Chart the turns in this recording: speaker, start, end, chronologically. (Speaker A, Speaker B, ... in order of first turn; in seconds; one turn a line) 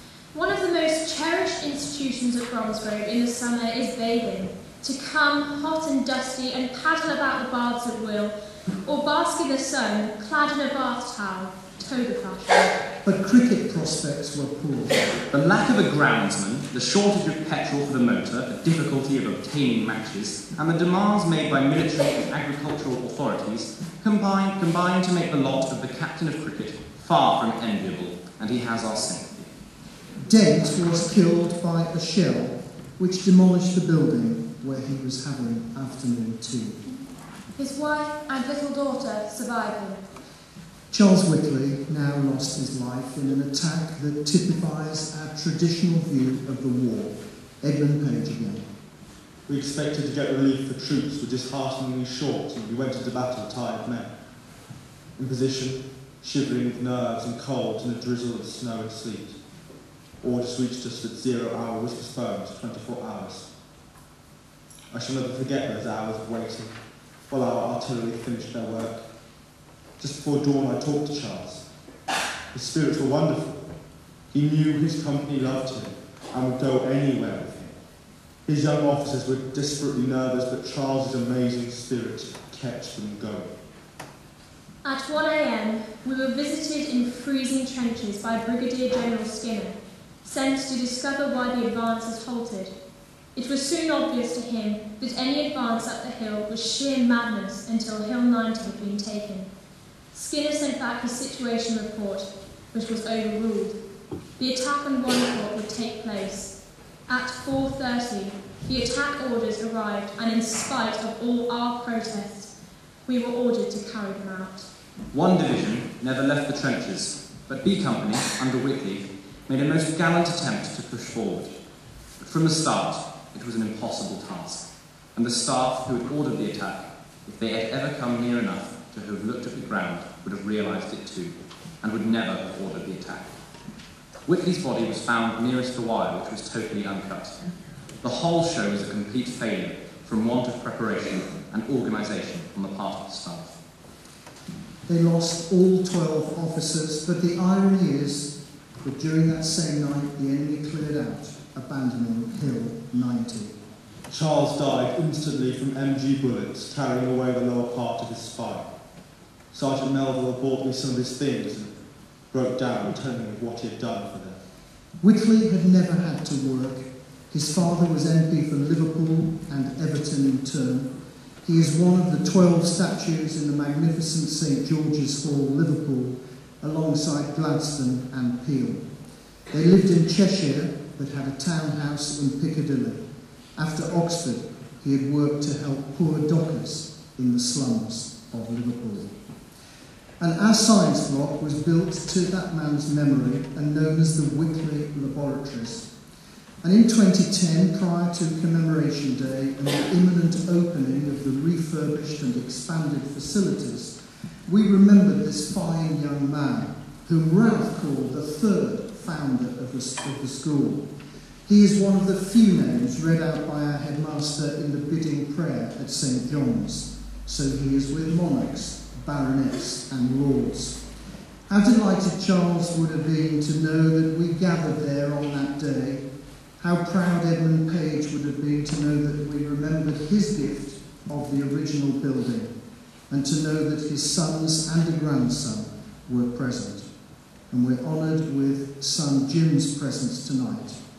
Speaker A: 0.3-12.7
Speaker B: 13.0-15.1
Speaker C: 15.3-29.5
Speaker B: 30.2-36.8
Speaker D: 37.6-40.0
Speaker B: 40.9-48.7
Speaker E: 49.5-54.1
Speaker E: 55.2-59.4
Speaker E: 60.2-63.5
Speaker E: 64.9-66.7
Speaker E: 67.3-69.0
Speaker E: 70.0-71.6
Speaker E: 72.5-73.7
Speaker E: 74.3-77.7
Speaker E: 78.5-83.5
Speaker A: 84.8-92.7
Speaker A: 93.3-99.5
Speaker A: 100.1-103.8
Speaker A: 104.4-106.5
Speaker A: 107.1-112.5
Speaker A: 113.0-114.7
Speaker C: 115.1-121.5
Speaker C: 122.2-124.6
Speaker C: 125.1-133.3
Speaker C: 134.2-137.3
Speaker C: 138.0-143.5
Speaker B: 144.9-153.6
Speaker E: 154.1-158.7
Speaker E: 159.5-161.7
Speaker E: 162.3-164.4
Speaker B: 165.0-178.8
Speaker B: 179.5-183.0
Speaker B: 183.6-189.2
Speaker B: 190.2-195.9
Speaker B: 196.6-210.8
Speaker B: 211.4-220.8
Speaker B: 221.5-226.0
Speaker B: 226.6-232.5
Speaker B: 233.1-236.9
Speaker B: 237.5-240.8